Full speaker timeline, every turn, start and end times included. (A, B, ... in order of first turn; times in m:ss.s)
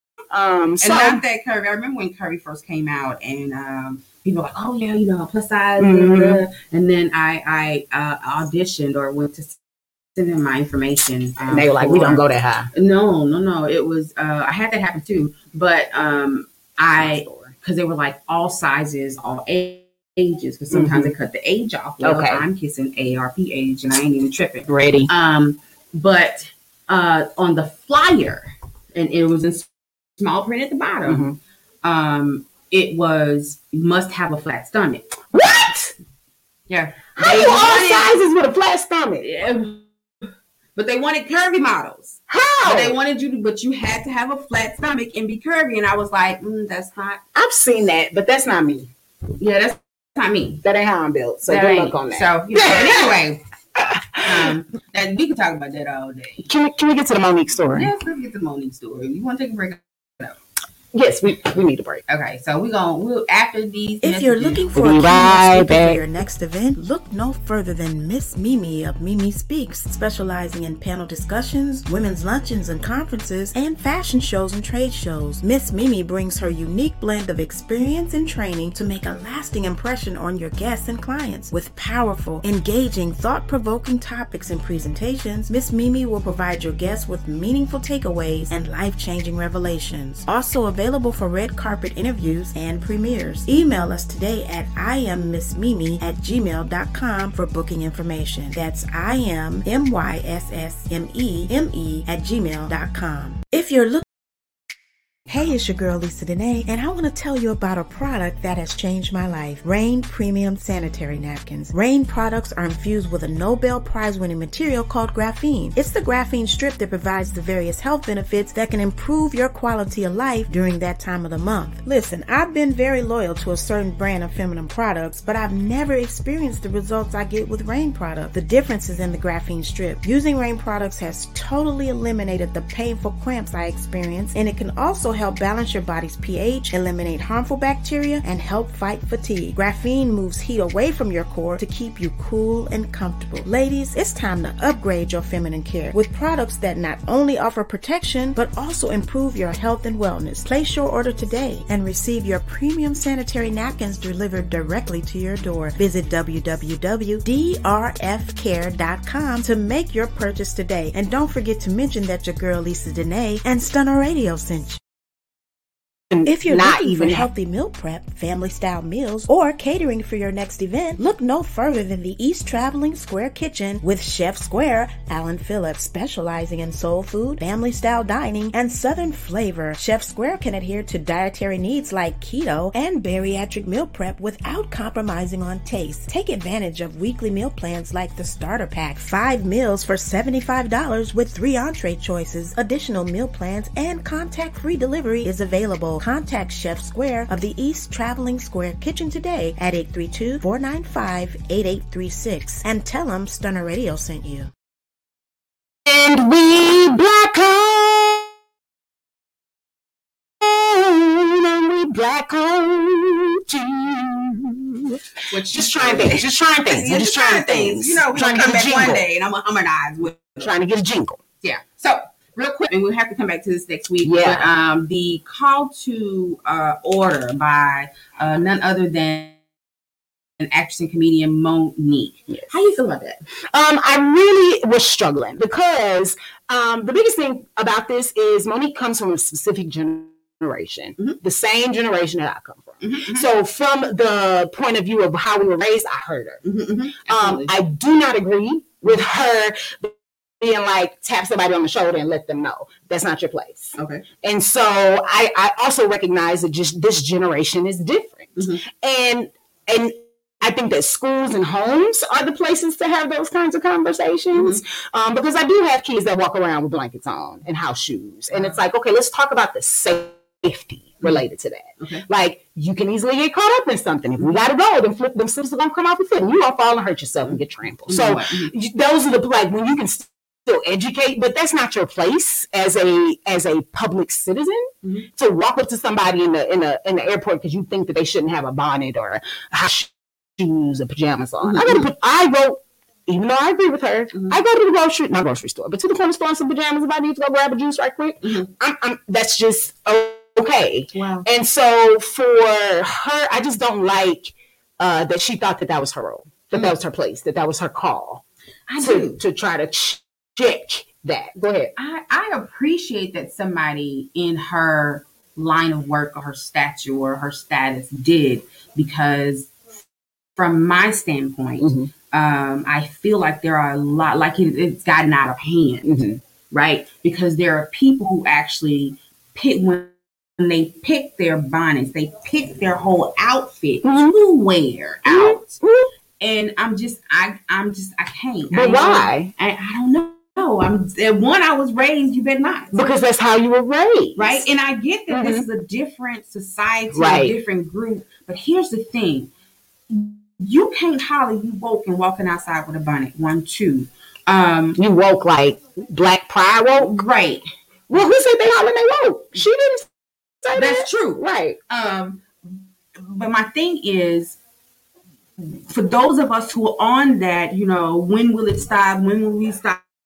0:00.3-0:01.2 A
0:00.8-0:09.6 B
0:05.8-0:06.5 A
0:10.1-0:31.3 B
0:11.5-0:12.7 A
0:17.0-0:17.5 A
0:20.7-0:21.1 A
0:22.0-0:22.4 A
0:24.7-0:25.1 A
0:31.0-0:31.4 A
0:31.8-0:35.2 B
0:35.3-0:35.9 A
0:36.7-0:38.2 B
0:37.2-0:39.3 A
0:39.2-0:39.8 B
0:40.8-0:47.2 B
0:42.3-0:43.0 A
0:47.3-0:48.9 A
0:49.4-0:50.6 B
0:50.6-0:53.2 A
0:51.5-0:53.4 B
0:53.8-0:54.5 A
0:54.2-0:56.5 B
0:56.4-0:57.9 A
0:57.7-1:00.4 B
1:00.9-1:02.0 A
1:02.1-1:04.7 B
1:04.0-1:44.0 C
1:04.7-1:06.0 A
1:45.3-2:44.8 C
2:46.1-2:47.3 A
2:46.2-3:24.5 C
3:25.8-3:28.3 A
3:30.4-3:39.1 A
3:35.3-3:40.5 B
3:40.4-3:41.2 A
3:41.4-3:49.4 B
3:44.0-3:44.5 A
3:50.4-3:53.2 B
3:53.5-4:06.4 A
4:02.8-4:03.2 B
4:06.4-4:07.5 B
4:07.1-5:08.2 A
4:13.8-4:14.0 B
4:18.4-4:18.6 B
4:24.3-4:24.6 B
4:28.3-4:28.6 B
4:31.8-4:32.0 B
4:37.2-4:38.5 B
4:51.4-4:51.9 B
4:54.1-4:54.4 B
4:58.2-4:58.5 B
5:00.9-5:01.3 B
5:08.7-5:09.2 B
5:08.8-5:11.7 A
5:11.8-5:19.5 B
5:20.4-5:35.6 B
5:21.6-5:21.9 A
5:25.8-5:26.2 A
5:33.8-5:34.1 A
5:35.0-5:35.9 A
5:36.2-5:42.8 B
5:38.5-5:39.3 A
5:42.7-5:44.5 A
5:44.2-5:49.3 B
5:45.1-5:45.4 A
5:46.9-5:47.4 A
5:49.9-5:54.8 B
5:54.8-5:57.0 A
5:56.8-5:57.4 B
5:57.9-5:59.9 A
6:00.4-6:01.6 A
6:00.5-6:02.2 B
6:03.0-6:04.4 B
6:05.7-6:09.8 B